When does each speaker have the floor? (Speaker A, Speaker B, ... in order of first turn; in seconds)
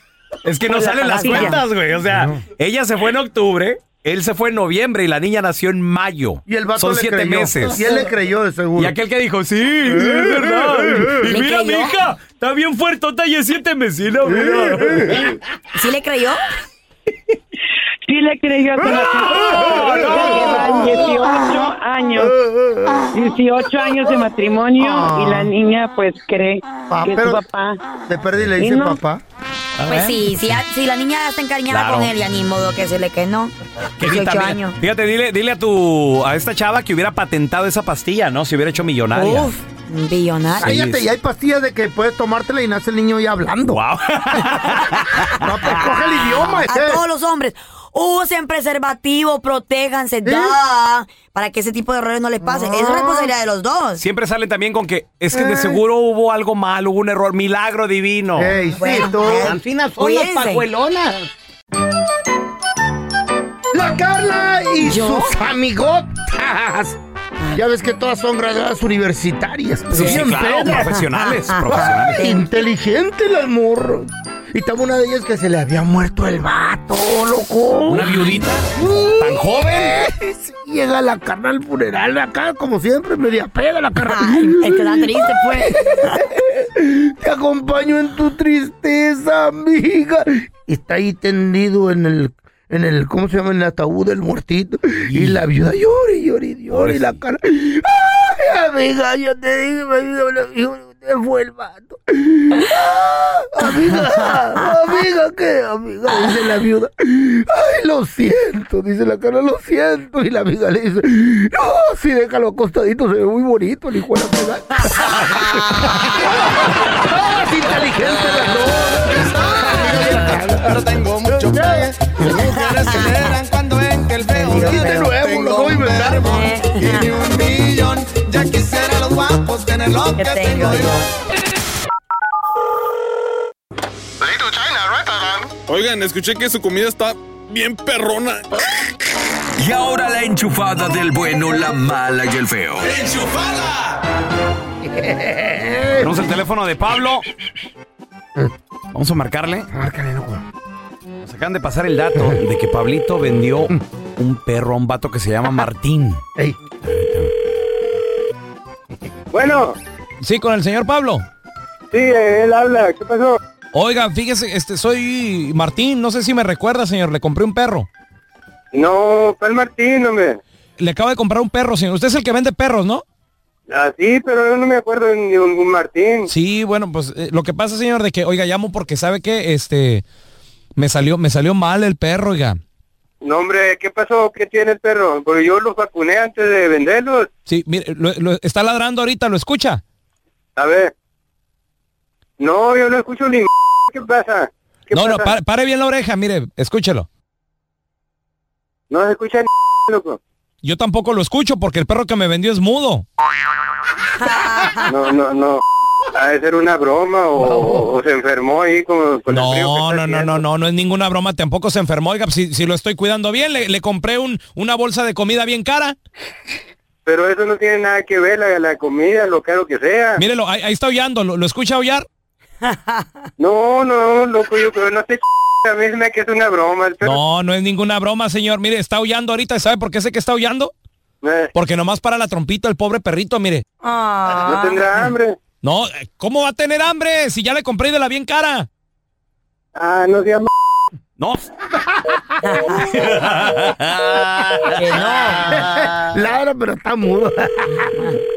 Speaker A: 0.5-7.9, 8.8-15.3, 20.2-20.6, 29.8-30.6, 31.7-32.1, 34.0-39.5, 40.6-41.0, 43.7-45.8, 54.0-58.6, 69.9-72.2, 77.9-80.0, 95.1-95.4, 96.7-97.1, 146.0-147.3, 148.9-149.7, 151.2-156.2, 156.9-157.3, 160.2-161.2, 163.7-167.9, 170.8-173.0, 176.3-180.0, 180.8-182.6, 187.5-189.8, 194.9-197.1, 200.6-203.1, 209.3-216.0, 220.2-222.1, 227.0-230.7, 231.5-233.7, 235.6-238.7, 241.2-241.5, 242.8-244.8
Speaker B: 0.7-1.6, 18.1-22.4, 23.1-27.8, 28.6-29.0
Speaker C: 1.1-1.6, 11.3-12.0, 15.8-16.4, 29.9-34.8, 39.2-40.8, 46.5-54.0, 58.8-60.7, 64.8-65.3, 70.7-72.4, 84.0-86.2, 104.2-104.7, 114.9-116.1, 119.7-120.2, 122.2-123.4, 124.3-125.2, 126.2-127.1, 130.1-131.1, 204.2-204.9, 222.7-223.1, 233.8-235.0, 242.4-243.3, 244.7-245.6
Speaker D: 2.1-2.4, 6.5-9.0, 9.9-11.2, 14.3-15.3, 19.3-21.5, 22.2-23.1, 24.8-25.5, 26.9-27.4, 28.1-29.2, 40.6-43.8, 44.4-44.6, 45.4-47.0, 50.2-50.6, 52.4-53.3, 55.3-55.8, 58.4-59.5, 63.7-67.0, 67.5-71.0, 71.7-78.2, 78.8-123.4, 124.2-127.9, 144.8-146.2, 149.7-150.4, 245.4-248.1
Speaker E: 59.4-61.3, 130.3-130.7, 245.1-245.9
Speaker F: 119.2-121.6, 123.5-124.2, 125.3-126.2, 127.9-128.8
Speaker G: 135.7-138.5
Speaker H: 139.6-143.0
Speaker I: 159.3-159.8, 161.9-163.4, 168.7-170.4, 173.7-176.3, 183.2-187.3, 190.6-190.9, 192.4-195.3, 198.9-200.2, 204.9-205.6, 206.2-210.4, 217.1-220.2, 223.4-227.2, 231.2-231.5, 234.3-235.4, 239.8-240.5